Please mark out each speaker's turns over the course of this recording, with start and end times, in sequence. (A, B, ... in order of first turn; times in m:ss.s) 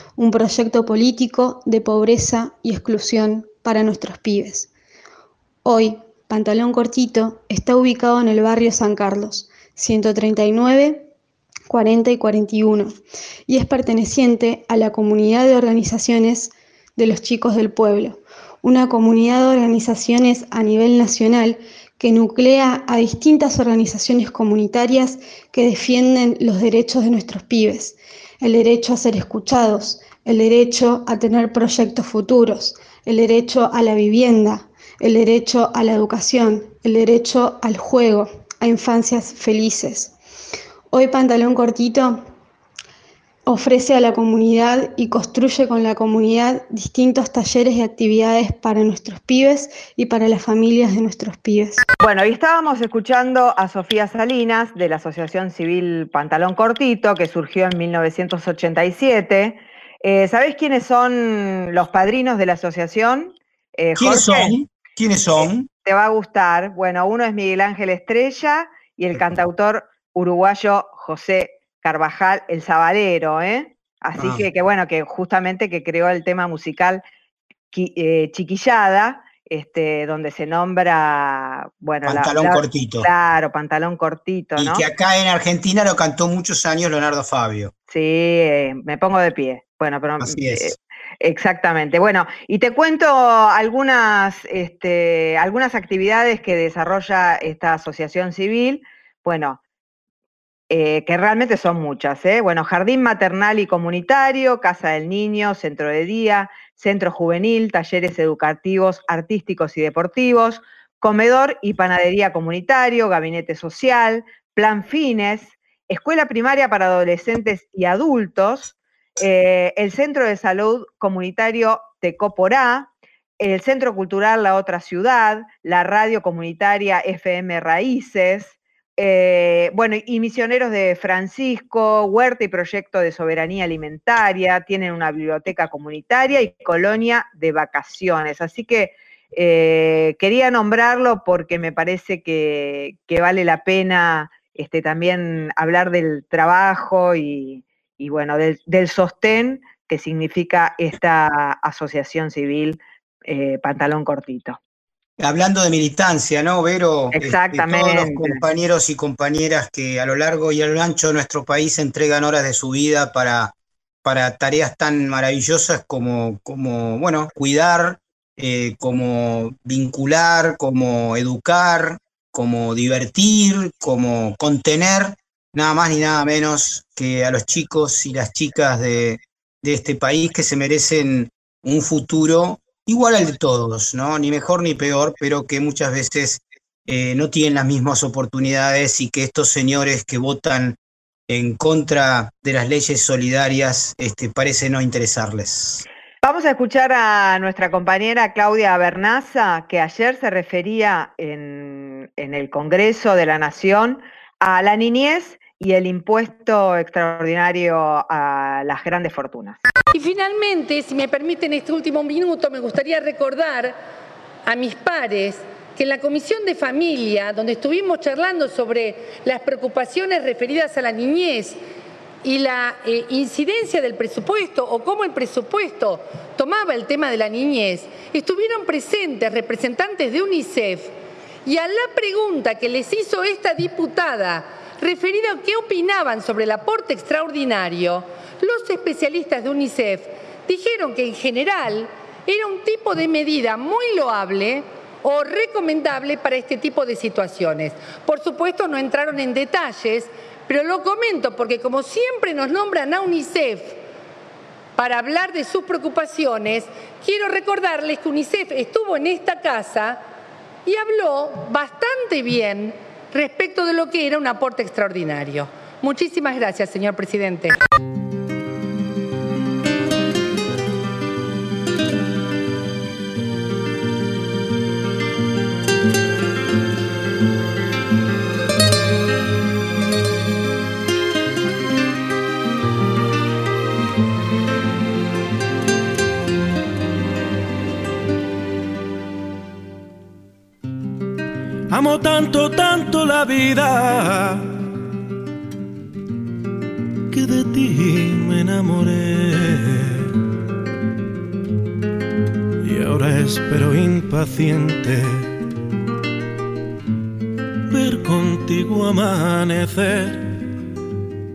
0:00.2-0:04.7 A
0:05.6-0:11.1 A
0:11.7-0:13.0 A
0:13.5-0:40.1 A
0:40.9-0:42.2 A
0:43.5-0:51.9 A
0:52.0-1:04.6 B
1:04.0-1:05.7 C
1:05.8-1:17.0 B
1:14.2-1:14.5 C
1:17.7-1:24.8 B
1:22.0-1:23.1 C
1:24.6-1:27.7 C
1:27.9-1:39.6 B
1:30.2-1:30.8 C
1:40.7-2:34.6 B
2:35.2-2:43.5 C
2:37.1-2:38.4 B
2:44.0-3:10.8 C
3:11.3-3:15.8 C
3:16.2-3:29.6 B
3:29.9-3:33.8 D
3:34.5-3:41.6 D
3:42.2-3:50.9 D
3:51.4-4:13.8 D
4:14.8-4:20.0 D
4:20.6-4:27.6 D
4:51.7-4:54.6 E
4:57.1-5:00.1 E
5:02.6-5:05.3 E
5:07.7-5:10.3 E